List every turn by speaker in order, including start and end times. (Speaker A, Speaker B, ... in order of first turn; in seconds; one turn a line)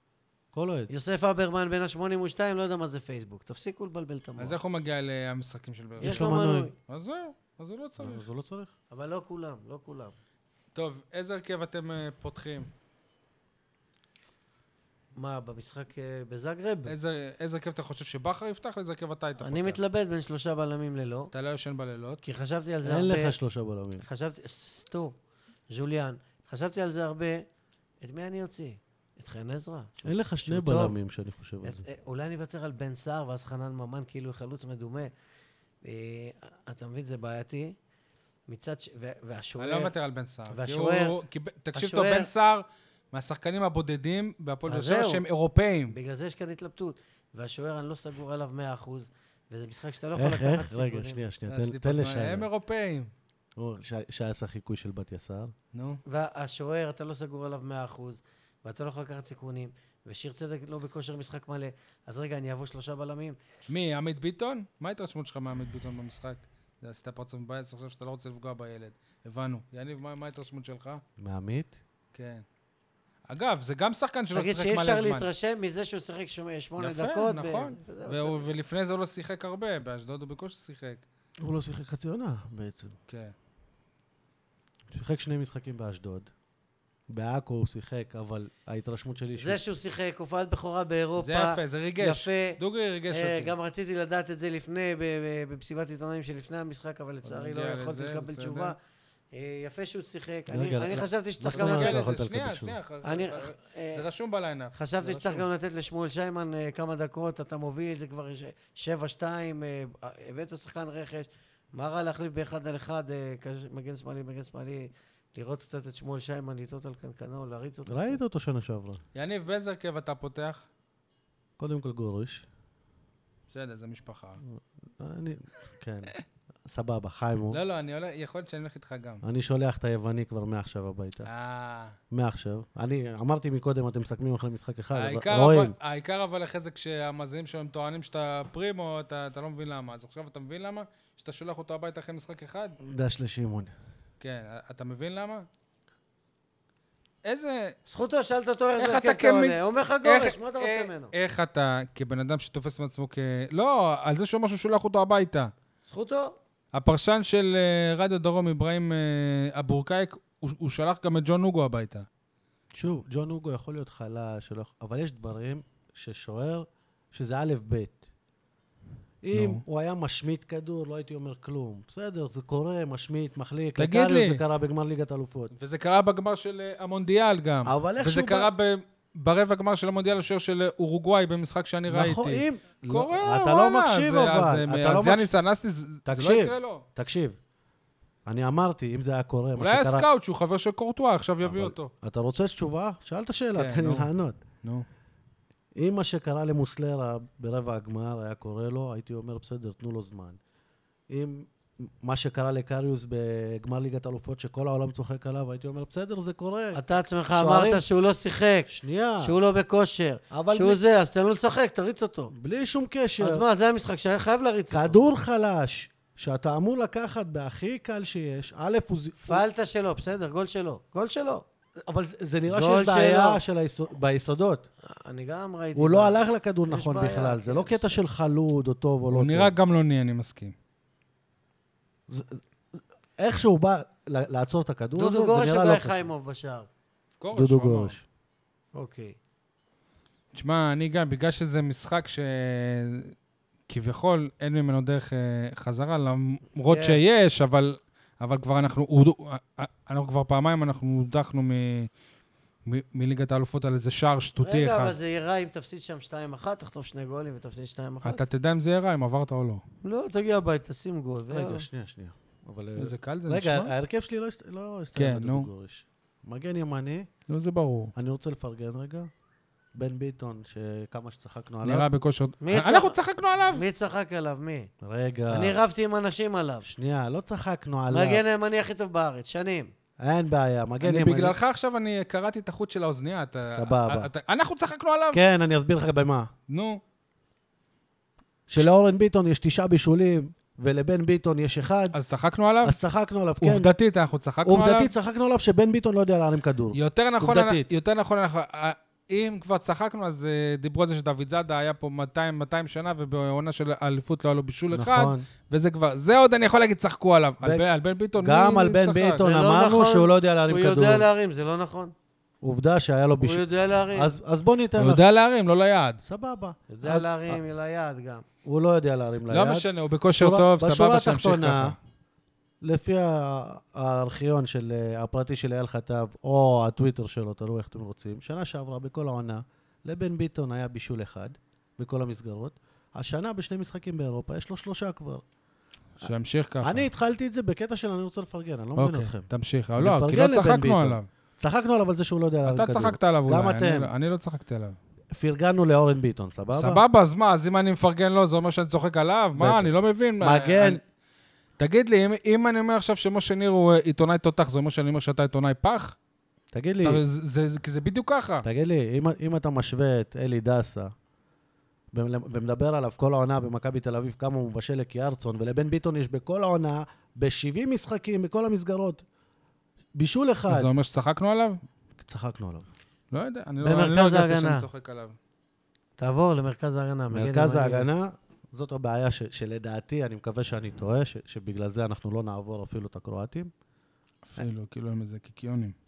Speaker A: 0.5-0.9
Speaker B: 0.9-4.6
Speaker C: 4.4-8.2
Speaker A: 6.0-6.7
Speaker B: 6.0-6.7
Speaker A: 8.0-8.7
Speaker B: 8.9-10.1
Speaker C: 10.7-12.7
Speaker B: 15.2-16.9
Speaker C: 16.9-19.8
Speaker B: 19.4-21.3
Speaker C: 21.3-22.2
Speaker B: 22.2-23.4
Speaker A: 22.8-24.0
Speaker B: 24.0-25.2
Speaker B: 25.7-27.4
Speaker B: 28.0-31.0
Speaker A: 30.0-31.8
Speaker B: 31.6-35.1
Speaker B: 35.8-37.7
Speaker B: 38.5-39.9
Speaker C: 39.6-45.9
Speaker B: 40.5-41.2
Speaker B: 41.7-42.3
Speaker B: 44.7-45.2
Speaker B: 45.9-51.2
Speaker A: 50.1-52.5
Speaker C: 51.5-53.1
Speaker A: 53.6-55.5
Speaker C: 55.7-56.0
Speaker B: 56.0-63.4
Speaker C: 63.7-71.0
Speaker A: 71.2-71.8
Speaker C: 72.1-72.4
Speaker C: 73.3-75.3
Speaker B: 74.3-78.5
Speaker C: 76.8-81.0
Speaker A: 81.4-83.0
Speaker C: 83.1-83.3
Speaker A: 84.9-86.3
Speaker A: 87.1-89.6
Speaker B: 89.4-98.8
Speaker C: 91.2-93.5
Speaker C: 97.2-98.7
Speaker B: 99.3-102.1
Speaker A: 100.5-102.8
Speaker C: 101.5-104.7
Speaker B: 103.0-104.0
Speaker B: 104.7-118.2
Speaker A: 105.0-105.4
Speaker A: 117.9-119.0
Speaker C: 119.1-120.7
Speaker A: 121.6-122.5
Speaker C: 123.5-124.4
Speaker A: 124.4-126.1
Speaker A: 126.7-127.6
Speaker C: 127.5-129.2
Speaker A: 129.2-131.3
Speaker C: 131.2-131.9
Speaker A: 132.1-135.7
Speaker C: 134.9-142.8
Speaker A: 142.8-143.7
Speaker C: 144.2-145.5
Speaker C: 147.2-147.8
Speaker B: 147.9-151.1
Speaker C: 148.8-155.5
Speaker B: 155.8-156.4
Speaker C: 156.7-162.1
Speaker A: 162.7-168.0
Speaker A: 169.2-175.5
Speaker C: 169.3-169.6
Speaker C: 173.8-174.4
Speaker C: 175.5-186.8
Speaker A: 177.6-178.5
Speaker A: 181.9-185.3
Speaker A: 186.1-187.4
Speaker A: 188.2-190.1
Speaker C: 189.6-191.9
Speaker A: 191.4-194.4
Speaker C: 193.5-194.1
Speaker A: 195.7-200.4
Speaker A: 201.1-207.8
Speaker B: 206.7-212.3
Speaker A: 208.7-209.3
Speaker A: 210.3-210.8
Speaker A: 212.3-213.4
Speaker B: 213.2-215.0
Speaker A: 214.7-219.4
Speaker B: 219.2-221.4
Speaker A: 221.8-224.7
Speaker B: 222.5-223.4
Speaker B: 224.8-228.0
Speaker A: 225.7-229.5
Speaker C: 229.1-230.5
Speaker A: 232.1-236.1
Speaker B: 234.9-236.7
Speaker C: 237.2-237.9
Speaker A: 237.3-238.0
Speaker B: 238.7-239.2
Speaker C: 240.3-243.1
Speaker C: 243.7-251.9
Speaker B: 246.7-247.0
Speaker C: 252.7-255.0
Speaker B: 254.4-258.2
Speaker C: 258.0-259.6
Speaker B: 259.8-261.7
Speaker A: 261.3-267.1
Speaker C: 262.8-263.7
Speaker C: 264.9-265.5
Speaker C: 267.3-267.9
Speaker A: 267.9-269.1
Speaker A: 269.7-271.9
Speaker C: 271.6-273.6
Speaker B: 272.4-274.7
Speaker A: 274.8-275.6
Speaker B: 275.3-276.7
Speaker A: 276.6-278.2
Speaker B: 277.9-279.7
Speaker A: 280.0-281.4
Speaker C: 280.8-285.2
Speaker A: 283.5-284.1
Speaker A: 285.1-286.3
Speaker C: 286.5-286.8
Speaker A: 288.5-292.0
Speaker C: 291.9-292.8
Speaker A: 292.6-293.7
Speaker C: 293.4-294.9
Speaker A: 294.4-297.7
Speaker C: 296.7-309.2
Speaker A: 304.7-305.2
Speaker A: 308.2-311.1
Speaker B: 309.2-311.9
Speaker A: 312.4-315.0
Speaker B: 313.2-314.1
Speaker C: 314.8-316.0
Speaker A: 316.0-317.4
Speaker B: 316.7-318.2
Speaker A: 318.4-319.7
Speaker C: 319.3-321.8
Speaker A: 320.2-321.8
Speaker A: 322.6-335.2
Speaker C: 336.0-336.9
Speaker A: 336.6-339.3
Speaker C: 338.8-341.1
Speaker A: 339.8-343.9
Speaker C: 342.4-344.8
Speaker A: 345.1-346.8
Speaker C: 346.5-350.8
Speaker A: 349.4-349.7
Speaker A: 350.2-350.8
Speaker C: 351.6-355.9
Speaker A: 356.5-357.0
Speaker C: 356.8-358.4
Speaker A: 358.4-360.9
Speaker A: 361.9-369.0
Speaker A: 369.9-370.7
Speaker C: 370.5-371.6
Speaker A: 372.0-372.7
Speaker C: 373.1-375.2
Speaker B: 373.6-374.6
Speaker B: 376.0-377.9
Speaker A: 377.1-383.5
Speaker C: 384.2-385.7